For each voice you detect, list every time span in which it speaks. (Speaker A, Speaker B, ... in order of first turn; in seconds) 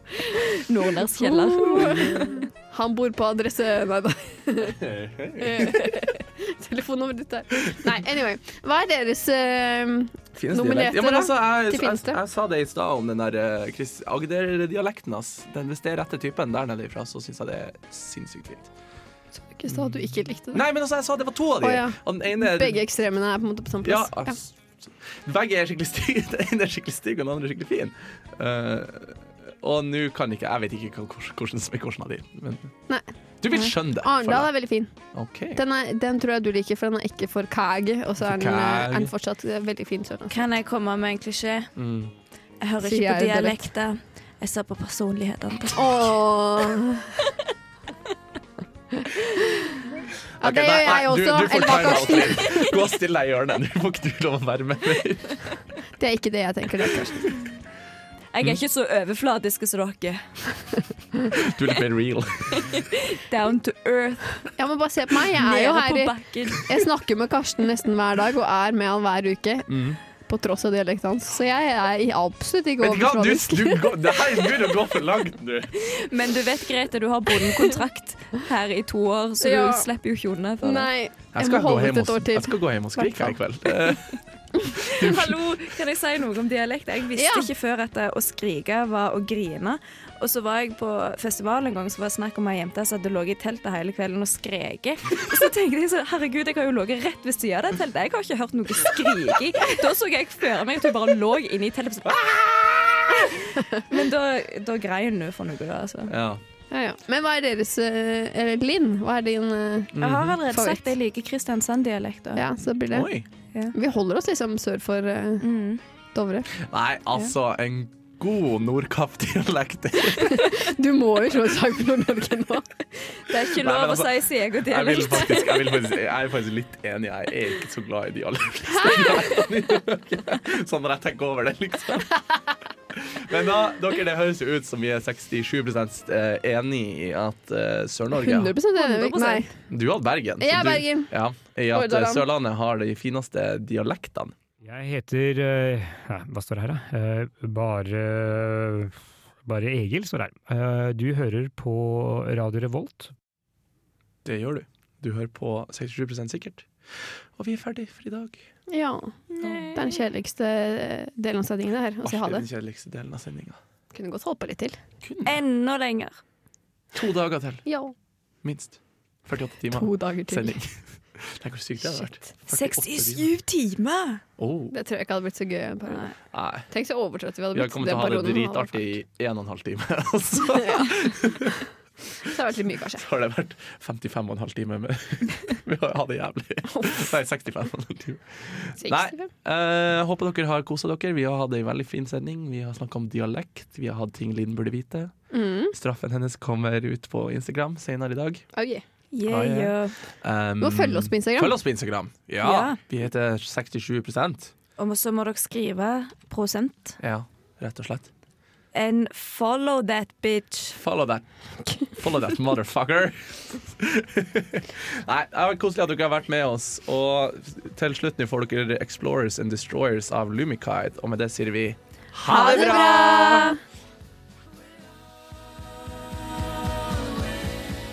Speaker A: 0.3-2.3, 40.3-41.7, 42.6-46.0, 58.3-60.2, 62.6-64.4, 65.4-66.7, 75.8-80.9, 84.8-102.2, 103.9-106.1, 110.0-112.5, 115.4-115.8, 123.3-125.6, 138.8-139.5, 159.3-159.9, 165.2-166.2, 172.5-174.2, 175.9-176.1, 199.1-200.0, 202.4-202.8, 204.8-207.0, 208.7-210.8, 222.3-223.6
Speaker B: 1.2-4.8, 5.4-12.2, 19.3-20.6, 21.6-24.4, 33.8-34.9, 35.5-40.4, 42.8-43.7, 45.8-47.3, 49.3-49.8, 50.4-52.8, 56.0-57.5, 64.6-69.7, 70.2-74.0, 79.4-79.9, 80.6-83.4, 87.2-87.5, 106.7-111.0, 112.4-113.1, 113.8-115.5, 116.2-116.5, 120.2-123.1, 128.8-129.3, 138.2-139.5, 140.4-141.1, 141.7-142.3, 158.7-159.2, 159.7-162.5, 163.9-164.8, 167.7-167.9, 169.7-170.6, 174.7-176.1, 176.7-178.9, 180.6-181.2, 182.2-183.1, 188.8-189.3, 195.3-195.8, 198.5-198.8, 200.6-201.6, 222.8-223.4
Speaker C: 1.7-2.4, 4.8-5.9, 10.4-18.7, 19.7-20.0, 20.5-22.8, 23.8-32.7, 33.4-34.5, 35.1-35.6, 38.2-39.1, 41.8-42.1, 50.4-55.4, 61.3-62.8, 69.7-70.0, 72.8-75.7, 81.3-84.2, 84.8-85.3, 102.0-103.3, 106.1-106.4, 109.9-110.4, 112.9-113.3, 116.6-120.6, 123.6-132.4, 132.9-138.6, 139.7-144.3, 154.2-158.4, 159.4-159.7, 162.0-163.6, 165.0-165.4, 166.9-167.6, 168.4-173.3, 174.4-174.8, 176.3-176.7, 177.5-181.6, 182.9-195.1, 195.7-198.4, 199.3-204.5, 207.0-208.1, 210.7-211.3, 211.8-223.5
Speaker D: 144.6-153.1